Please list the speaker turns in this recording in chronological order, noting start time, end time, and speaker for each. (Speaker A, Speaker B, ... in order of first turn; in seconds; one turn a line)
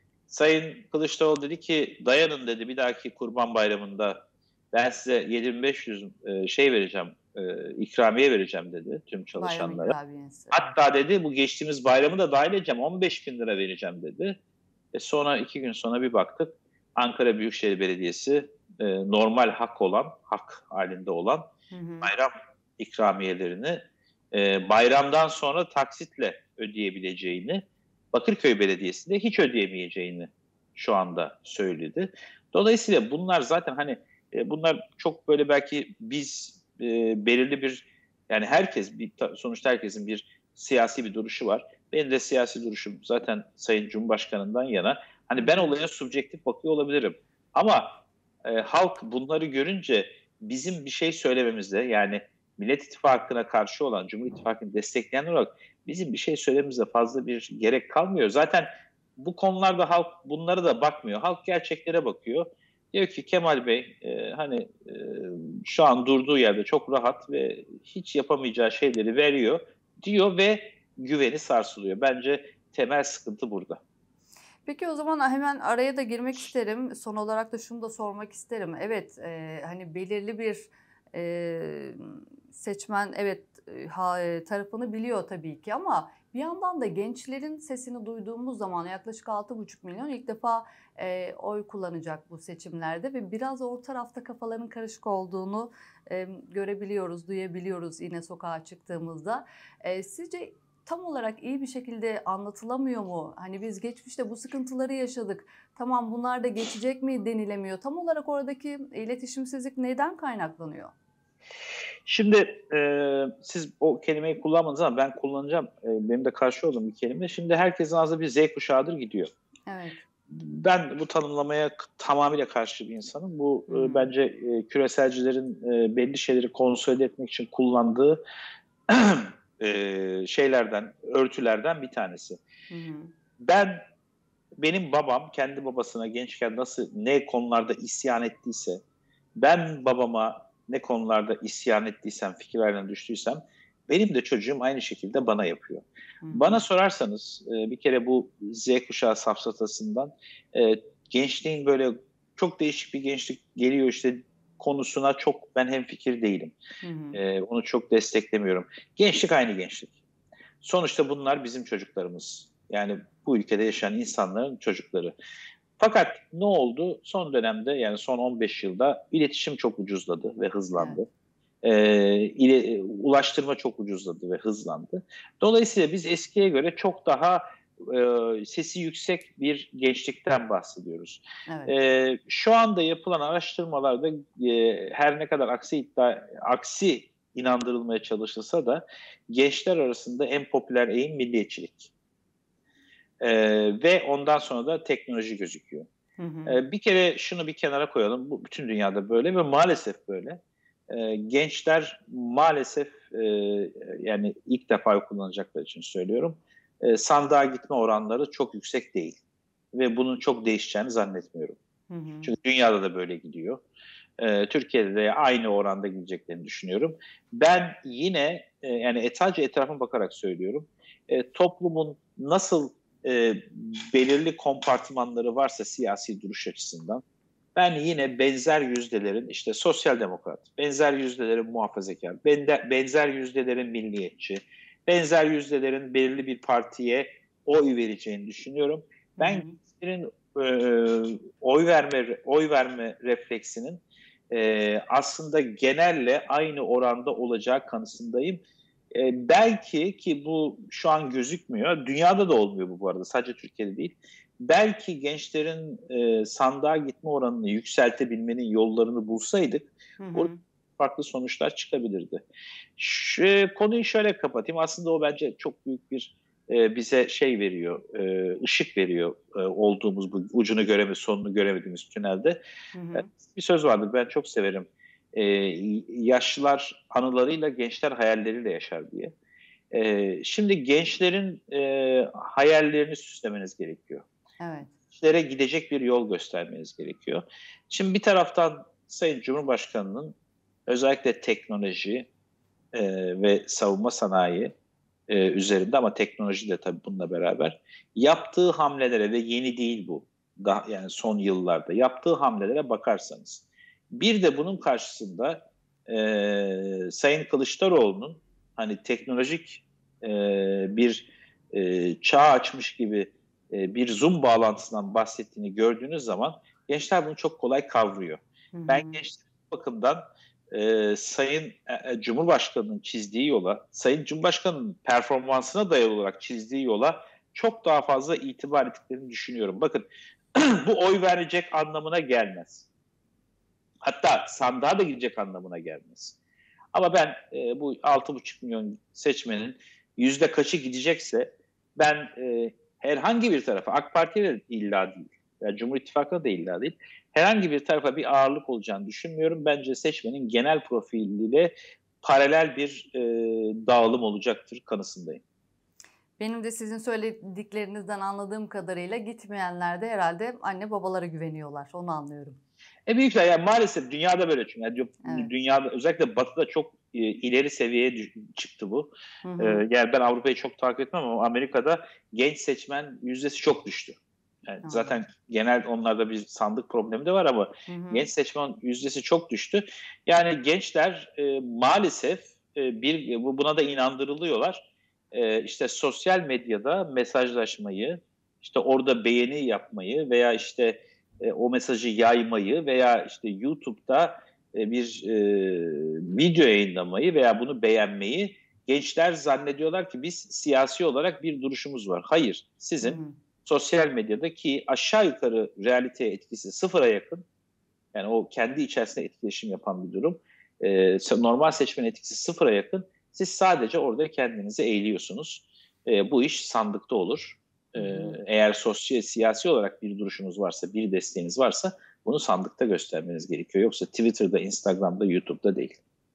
Speaker A: 0.3-9.9
Speaker B: 9.3-10.7
Speaker A: 10.5-14.4
Speaker A: 14.9-21.5
Speaker B: 21.7-22.1
Speaker A: 22.0-73.8
Speaker B: 45.4-45.7
Speaker B: 74.6-110.9
Speaker A: 112.0-119.3
Speaker B: 119.7-120.0
Speaker A: 120.3-128.2
Speaker B: 123.7-124.1
Speaker A: 128.9-132.4
Speaker B: 132.7-133.1
Speaker A: 133.4-133.8
Speaker A: 134.6-138.8
Speaker A: 139.4-156.6
Speaker B: 146.2-146.6
Speaker B: 156.8-157.2
Speaker A: 157.1-160.0
Speaker A: 160.6-165.1
Speaker A: 165.8-171.1
Speaker B: 170.8-171.0
Speaker A: 171.6-191.9
Speaker B: 181.5-181.7
Speaker A: 193.2-195.9
Speaker B: 196.2-196.6
Speaker A: 196.4-209.2
Speaker A: 209.7-211.6
Speaker B: 211.9-212.3
Speaker A: 212.2-213.6
Speaker A: 214.2-227.0
Speaker A: 227.6-248.4
Speaker B: 239.2-239.6
Speaker A: 248.9-262.2
Speaker B: 260.0-260.4
Speaker A: 262.8-272.4
Speaker B: 272.7-273.1
Speaker A: 272.9-279.1
Speaker A: 279.7-284.1
Speaker B: 284.4-284.7
Speaker A: 284.9-290.1
Speaker A: 290.7-292.1
Speaker A: 292.7-294.5
Speaker A: 295.1-332.7
Speaker B: 318.5-319.0
Speaker A: 333.8-336.2
Speaker A: 336.7-355.2
Speaker B: 356.2-362.4
Speaker A: 362.9-374.0
Speaker B: 365.0-365.3
Speaker B: 369.2-369.6
Speaker A: 374.5-407.2
Speaker B: 374.6-375.0
Speaker B: 377.7-378.1
Speaker B: 402.8-403.1
Speaker A: 407.9-425.8
Speaker B: 417.8-418.2